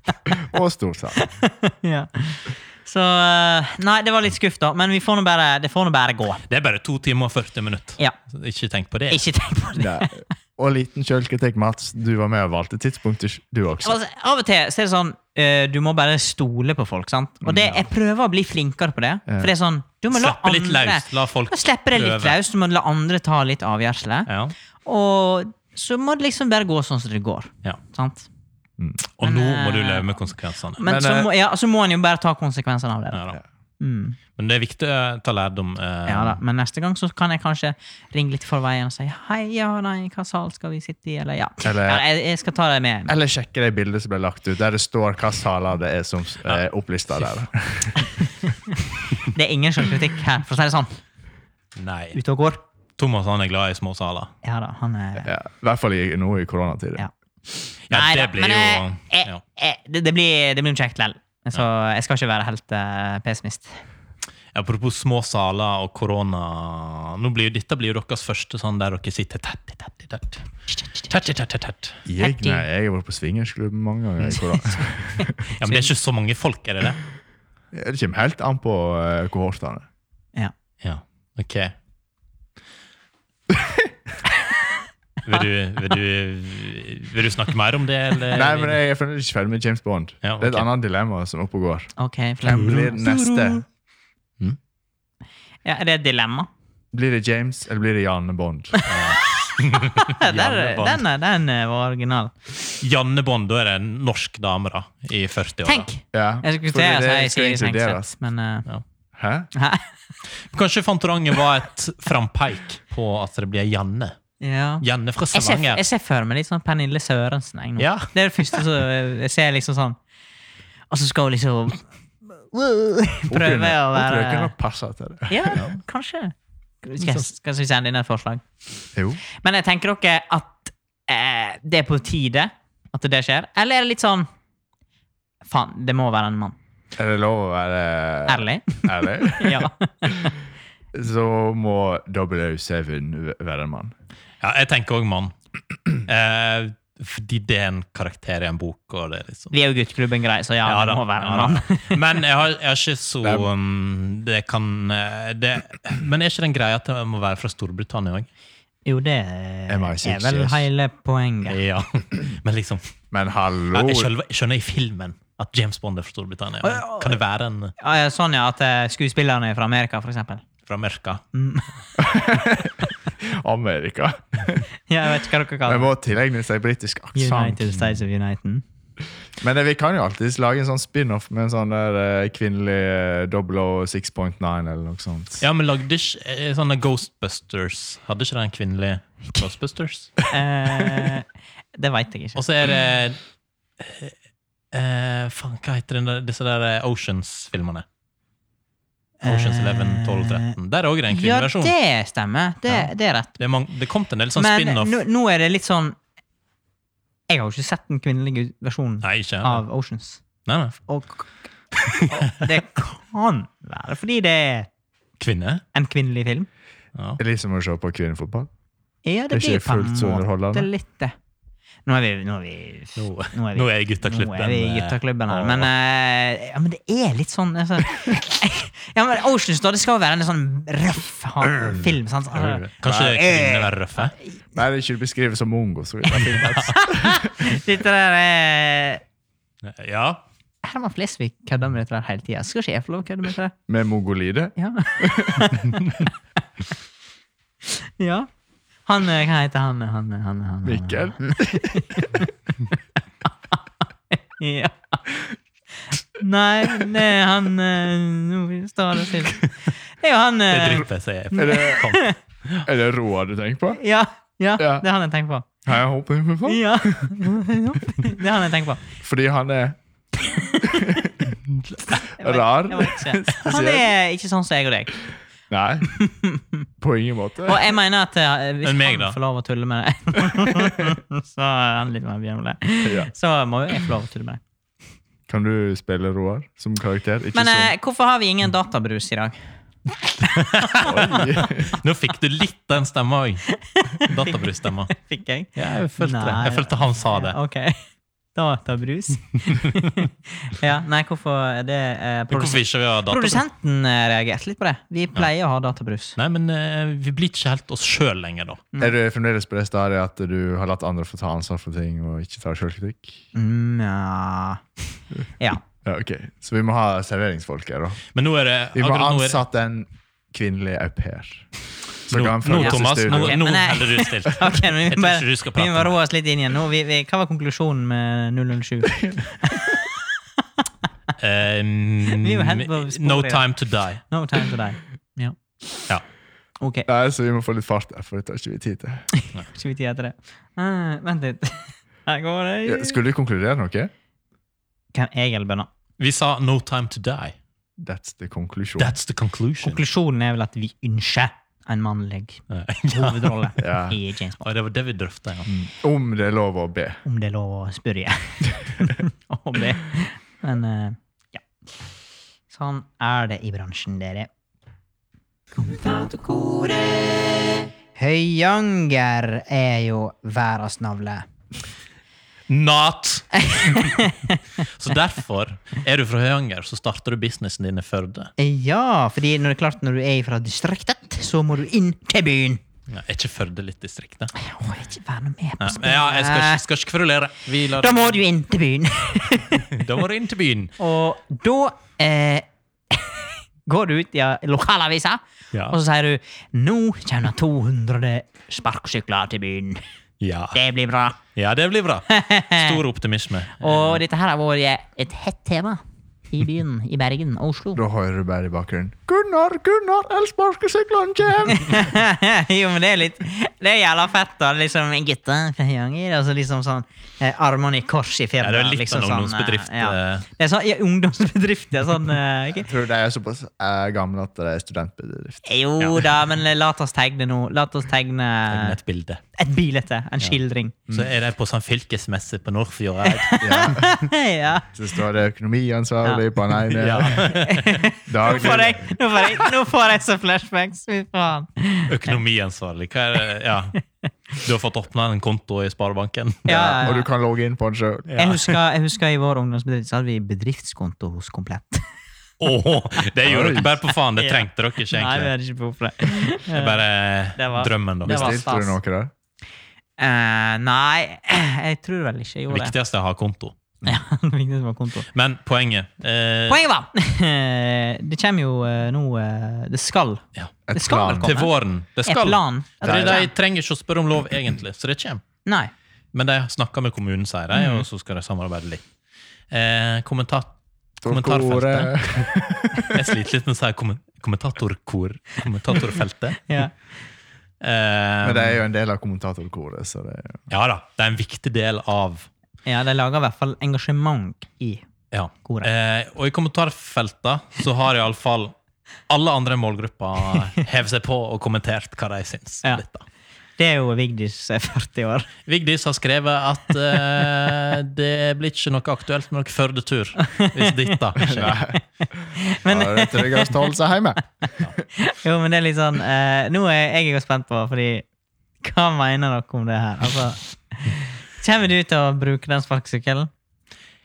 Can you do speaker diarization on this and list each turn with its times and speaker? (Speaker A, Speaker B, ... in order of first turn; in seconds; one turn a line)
Speaker A: 0.3-1.2
Speaker B: 1.2-6.4
Speaker C: 6.5-9.2
Speaker B: 9.1-10.1
Speaker A: 9.8-14.0
Speaker B: 13.8-24.3
Speaker C: 17.5-17.9
Speaker C: 20.1-22.4
Speaker C: 24.3-24.5
Speaker B: 24.9-28.3
Speaker C: 29.2-30.8
Speaker B: 29.2-30.2
Speaker B: 30.8-33.2
Speaker A: 30.8-31.3
Speaker C: 33.1-33.4
Speaker B: 33.8-34.2
Speaker C: 34.4-36.4
Speaker B: 36.1-43.1
Speaker A: 41.6-42.0
Speaker A: 43.1-48.1
Speaker C: 46.5-47.3
Speaker B: 48.0-51.0
Speaker C: 51.8-52.2
Speaker B: 52.1-52.6
Speaker C: 53.0-54.3
Speaker B: 54.4-55.3
Speaker A: 55.2-57.1
Speaker C: 57.9-59.4
Speaker B: 57.9-63.7
Speaker C: 64.5-70.5
Speaker B: 70.7-71.1
Speaker C: 71.1-72.0
Speaker A: 72.1-75.4
Speaker B: 72.2-72.7
Speaker B: 74.4-75.9
Speaker C: 75.6-77.0
Speaker A: 77.7-79.8
Speaker C: 80.8-81.7
Speaker C: 85.2-88.8
Speaker A: 88.3-91.9
Speaker C: 90.2-90.7
Speaker B: 92.0-93.6
Speaker A: 92.4-93.6
Speaker B: 95.7-96.5
Speaker A: 96.9-98.8
Speaker B: 98.7-102.3
Speaker C: 98.9-101.0
Speaker C: 102.8-105.9
Speaker B: 105.7-108.7
Speaker A: 106.1-108.1
Speaker A: 109.2-109.5
Speaker B: 109.5-109.9
Speaker C: 110.5-114.2
Speaker B: 114.4-120.0
Speaker C: 114.8-115.8
Speaker C: 117.8-118.6
Speaker B: 120.9-124.5
Speaker A: 123.3-125.6
Speaker B: 125.3-128.4
Speaker A: 128.9-129.2
Speaker B: 129.3-134.3
Speaker B: 135.4-136.6
Speaker A: 137.0-139.7
Speaker B: 138.3-140.3
Speaker A: 140.9-143.9
Speaker C: 144.4-145.3
Speaker C: 145.9-149.5
Speaker B: 149.5-152.0
Speaker C: 150.7-158.3
Speaker B: 158.9-161.6
Speaker A: 159.7-160.7
Speaker C: 161.5-162.8
Speaker A: 163.1-164.1
Speaker C: 163.7-167.8
Speaker B: 166.6-167.2
Speaker B: 167.8-170.4
Speaker C: 170.7-171.2
Speaker B: 171.3-171.7
Speaker A: 172.0-174.7
Speaker B: 174.9-175.9
Speaker A: 175.7-177.6
Speaker B: 177.2-178.6
Speaker A: 179.4-185.4
Speaker C: 185.4-190.2
Speaker B: 190.3-192.4
Speaker C: 192.4-193.2
Speaker C: 193.8-194.2
Speaker C: 194.7-197.8
Speaker B: 199.2-200.5
Speaker C: 199.2-201.8
Speaker B: 201.1-203.4
Speaker C: 202.7-205.0
Speaker B: 204.4-206.0
Speaker B: 207.3-210.2
Speaker C: 209.0-209.6
Speaker C: 210.4-210.8
Speaker B: 210.9-211.3
Speaker B: 211.8-214.7
Speaker C: 211.9-212.5
Speaker C: 215.2-215.6
Speaker B: 215.7-216.5
Speaker C: 216.9-217.2
Speaker A: 217.2-218.5
Speaker B: 219.1-221.1
Speaker A: 219.3-220.7
Speaker B: 221.9-234.4
Speaker C: 223.0-225.7
Speaker C: 231.6-234.2
Speaker A: 234.6-237.3
Speaker C: 236.3-236.7
Speaker B: 236.3-239.0
Speaker C: 239.6-240.2
Speaker B: 240.6-243.5
Speaker A: 243.7-245.5
Speaker B: 244.6-246.1
Speaker B: 248.0-248.3
Speaker B: 248.9-252.7
Speaker A: 250.6-252.1
Speaker B: 254.1-255.0
Speaker B: 256.2-259.4
Speaker B: 260.0-262.1
Speaker C: 260.5-262.7
Speaker A: 261.4-261.8
Speaker A: 262.6-263.8
Speaker B: 263.7-265.5
Speaker A: 264.6-264.9
Speaker A: 265.6-267.2
Speaker B: 266.5-268.9
Speaker A: 269.0-269.8
Speaker B: 270.2-271.1
Speaker A: 270.5-271.3
Speaker C: 271.7-271.9
Speaker B: 272.2-275.0
Speaker A: 272.2-273.9
Speaker A: 275.5-275.9
Speaker B: 275.9-276.6
Speaker A: 276.8-277.7
Speaker B: 277.4-284.4
Speaker C: 278.6-279.2
Speaker A: 282.8-283.1
Speaker A: 285.3-287.7
Speaker B: 287.4-289.4
Speaker B: 290.2-291.4
Speaker C: 290.4-295.0
Speaker A: 290.8-291.8
Speaker B: 293.5-297.8
Speaker C: 295.6-297.4
Speaker B: 298.4-306.2
Speaker C: 302.3-303.4
Speaker C: 306.2-308.7
Speaker A: 308.8-313.2
Speaker B: 313.3-314.6
Speaker A: 315.9-318.0
Speaker C: 318.1-319.4
Speaker A: 318.7-321.5
Speaker A: 322.1-323.4
Speaker C: 322.1-325.9
Speaker B: 322.6-329.9
Speaker C: 331.2-334.0
Speaker B: 332.1-333.5
Speaker B: 334.0-335.4
Speaker B: 336.6-336.9
Speaker A: 336.9-339.1
Speaker B: 339.1-343.0
Speaker A: 342.7-343.9
Speaker B: 344.9-345.7
Speaker C: 346.0-347.4
Speaker A: 347.8-349.0
Speaker C: 348.8-349.8
Speaker B: 349.6-354.4
Speaker C: 352.5-353.5
Speaker A: 353.6-354.0
Speaker C: 354.4-355.5
Speaker A: 355.5-357.0
Speaker B: 357.1-361.4
Speaker B: 362.5-364.3
Speaker B: 365.6-371.3
Speaker C: 372.5-374.0
Speaker B: 373.4-374.4
Speaker C: 374.6-378.3
Speaker B: 378.4-382.6
Speaker C: 382.9-384.3
Speaker B: 384.4-386.6
Speaker C: 385.6-388.2
Speaker B: 387.7-389.8
Speaker C: 389.6-390.7
Speaker B: 390.8-399.8
Speaker C: 400.2-400.6
Speaker B: 400.5-401.2
Speaker C: 401.4-404.0
Speaker B: 402.1-402.8
Speaker B: 403.6-407.8
Speaker A: 407.8-411.8
Speaker B: 411.5-422.7
Speaker C: 418.4-420.3
Speaker A: 422.6-425.4
Speaker B: 425.4-428.8
Speaker C: 428.5-429.2
Speaker B: 429.4-430.8
Speaker C: 430.9-433.9
Speaker B: 433.1-434.7
Speaker A: 433.4-433.9
Speaker A: 434.7-437.4
Speaker C: 436.7-437.9
Speaker B: 437.2-442.2
Speaker A: 438.1-438.9
Speaker C: 441.9-443.8
Speaker C: 444.3-446.7
Speaker B: 446.5-447.1
Speaker A: 446.5-448.2
Speaker C: 448.1-448.6
Speaker B: 448.2-451.8
Speaker C: 452.4-455.3
Speaker A: 453.2-453.7
Speaker B: 454.2-456.8
Speaker C: 456.5-458.4
Speaker B: 457.4-458.8
Speaker A: 458.1-459.1
Speaker B: 460.0-462.7
Speaker C: 462.5-463.6
Speaker B: 463.8-465.1
Speaker C: 465.1-466.6
Speaker B: 466.5-471.5
Speaker C: 470.4-475.2
Speaker A: 470.7-471.3
Speaker B: 472.0-473.3
Speaker A: 472.8-473.2
Speaker B: 475.4-475.7
Speaker C: 476.1-478.8
Speaker B: 477.5-477.8
Speaker C: 479.5-482.3
Speaker A: 481.0-483.1
Speaker C: 482.9-486.6
Speaker B: 486.5-486.7
Speaker C: 487.6-488.6
Speaker A: 488.2-490.4
Speaker C: 490.5-492.3
Speaker B: 492.6-494.8
Speaker C: 495.1-498.6
Speaker B: 495.4-495.7
Speaker C: 499.1-503.1
Speaker B: 503.6-505.3
Speaker C: 505.5-511.6
Speaker B: 510.2-511.0
Speaker A: 511.2-514.7
Speaker B: 511.7-513.7
Speaker B: 514.9-518.0
Speaker B: 518.6-523.3